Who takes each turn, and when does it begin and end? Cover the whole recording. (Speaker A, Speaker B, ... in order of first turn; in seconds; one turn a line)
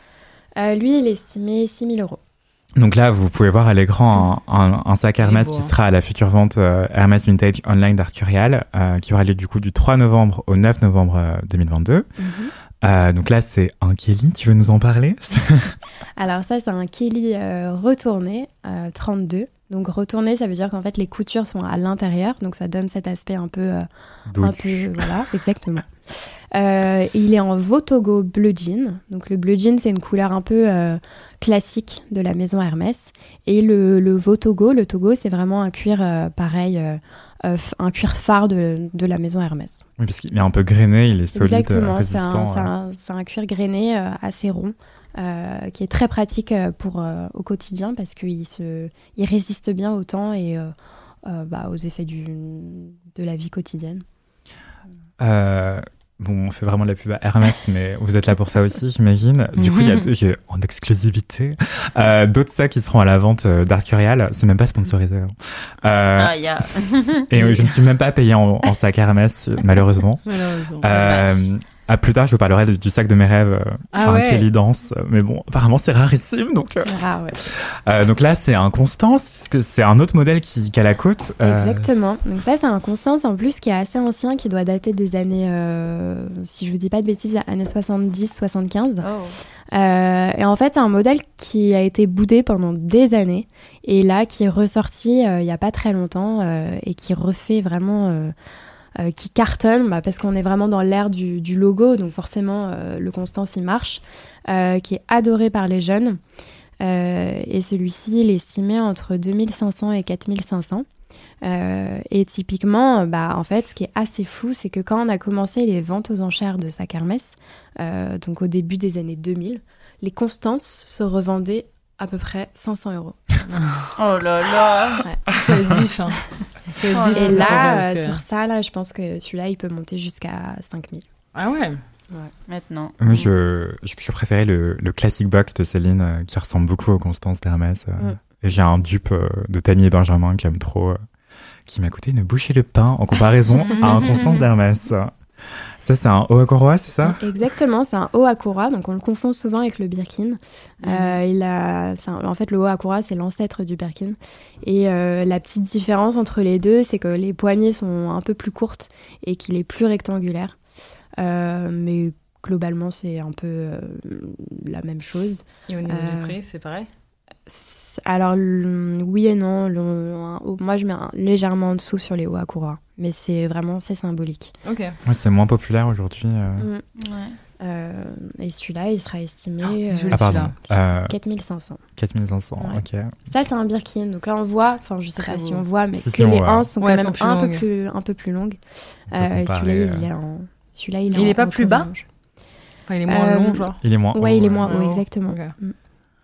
Speaker A: 0.6-2.2
Speaker B: 2.8-12.1
Speaker C: 5.2-5.7
Speaker A: 12.2-12.5
Speaker B: 12.8-15.8
Speaker A: 16.2-23.9
Speaker B: 24.3-25.1
Speaker A: 24.4-39.9
Speaker B: 40.0-42.7
Speaker A: 41.3-50.7
Speaker A: 51.2-54.0
Speaker B: 55.2-66.3
Speaker D: 66.2-67.5
Speaker B: 67.3-70.2
Speaker C: 70.2-71.0
Speaker B: 70.8-76.9
Speaker D: 70.9-71.5
Speaker C: 73.9-74.5
Speaker A: 76.9-77.4
Speaker B: 77.4-81.9
Speaker A: 81.4-89.1
Speaker D: 89.0-89.4
Speaker A: 89.7-98.3
Speaker A: 99.0-106.2
Speaker A: 106.8-110.9
Speaker A: 111.4-123.5
Speaker C: 123.5-123.9
Speaker D: 124.0-125.0
Speaker C: 125.3-128.2
Speaker D: 126.9-127.8
Speaker A: 127.1-131.0
Speaker C: 131.3-131.8
Speaker D: 132.5-133.3
Speaker B: 133.0-141.0
Speaker B: 141.7-145.1
Speaker C: 143.7-144.2
Speaker B: 145.8-147.2
Speaker A: 147.2-160.6
Speaker A: 161.2-166.4
Speaker C: 165.7-166.9
Speaker A: 167.5-174.5
Speaker C: 174.6-175.0
Speaker B: 175.1-176.7
Speaker A: 176.6-176.8
Speaker D: 177.0-177.4
Speaker A: 177.6-181.8
Speaker C: 179.9-180.5
Speaker B: 180.1-181.2
Speaker B: 182.0-183.3
Speaker A: 182.6-188.6
Speaker C: 185.2-185.6
Speaker B: 185.9-186.7
Speaker C: 186.8-187.7
Speaker B: 189.1-190.1
Speaker A: 189.1-192.1
Speaker C: 191.1-191.9
Speaker C: 192.9-193.8
Speaker A: 193.1-195.8
Speaker B: 193.8-194.7
Speaker C: 194.6-195.5